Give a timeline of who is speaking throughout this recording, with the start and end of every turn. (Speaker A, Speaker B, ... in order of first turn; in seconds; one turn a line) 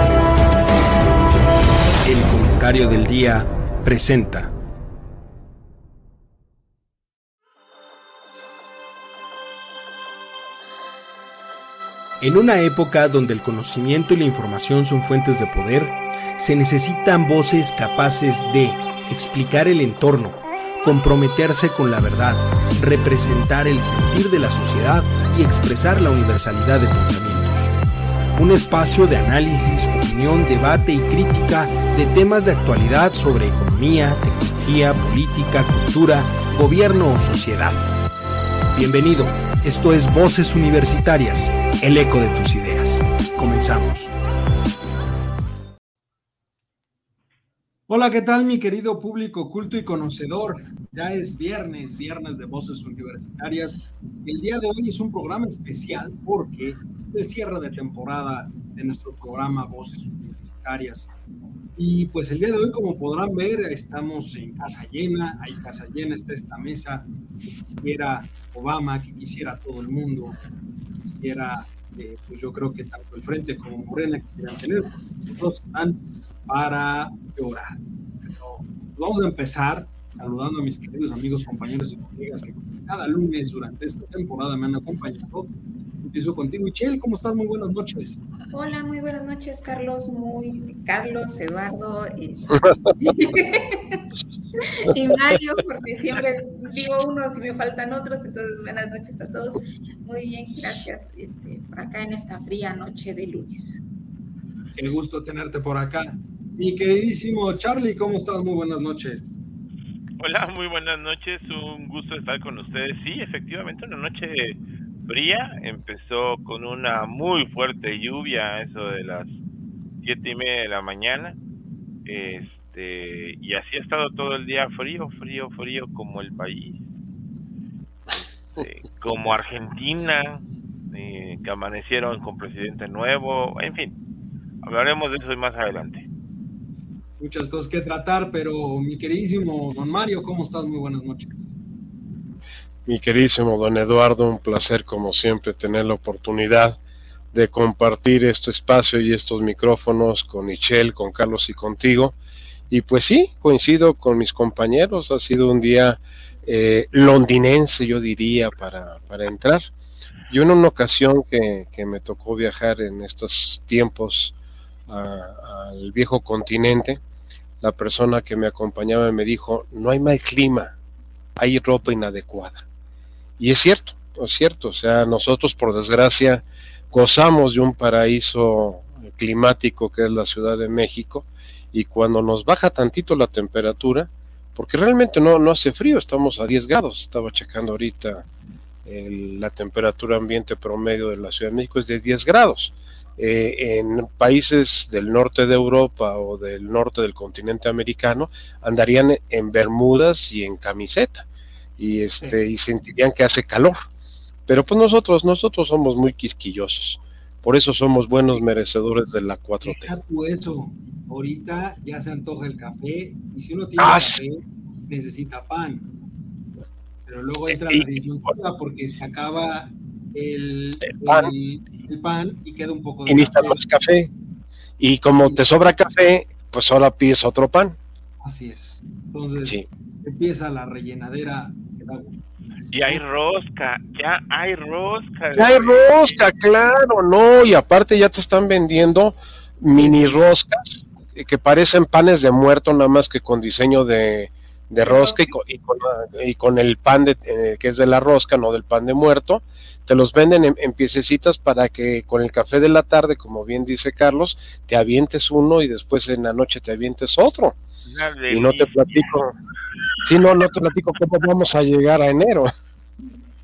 Speaker A: 2.0-4.5
Speaker A: 12.2-27.7
Speaker A: 28.4-37.9
Speaker A: 38.7-44.1
Speaker A: 47.9-61.1
Speaker A: 61.8-67.1
Speaker A: 67.7-70.4
Speaker A: 71.0-85.5
Speaker A: 86.0-88.2
Speaker B: 88.5-94.0
Speaker B: 94.6-103.8
Speaker A: 104.8-109.3
Speaker C: 110.2-119.3
Speaker C: 120.0-121.4
Speaker C: 122.1-126.8
Speaker C: 128.5-133.9
Speaker C: 134.6-136.1
Speaker A: 137.2-141.5
Speaker D: 142.9-146.8
Speaker D: 147.3-152.2
Speaker D: 152.7-159.7
Speaker D: 160.3-164.3
Speaker D: 164.9-167.0
Speaker D: 167.6-170.8
Speaker D: 171.4-172.7
Speaker D: 173.4-188.2
Speaker D: 188.8-201.3
Speaker D: 201.8-203.9
Speaker D: 204.5-209.9
Speaker A: 209.6-215.9
Speaker D: 213.8-214.2
Speaker A: 217.1-223.6
Speaker D: 217.5-217.9
Speaker D: 220.8-221.3
Speaker D: 223.1-224.1
Speaker D: 224.8-227.8
Speaker A: 225.2-225.5
Speaker A: 228.2-232.2
Speaker C: 232.7-236.2
Speaker D: 235.3-257.6
Speaker A: 239.8-240.2
Speaker A: 244.8-245.3
Speaker C: 257.9-259.1
Speaker D: 258.3-259.3
Speaker D: 260.0-262.5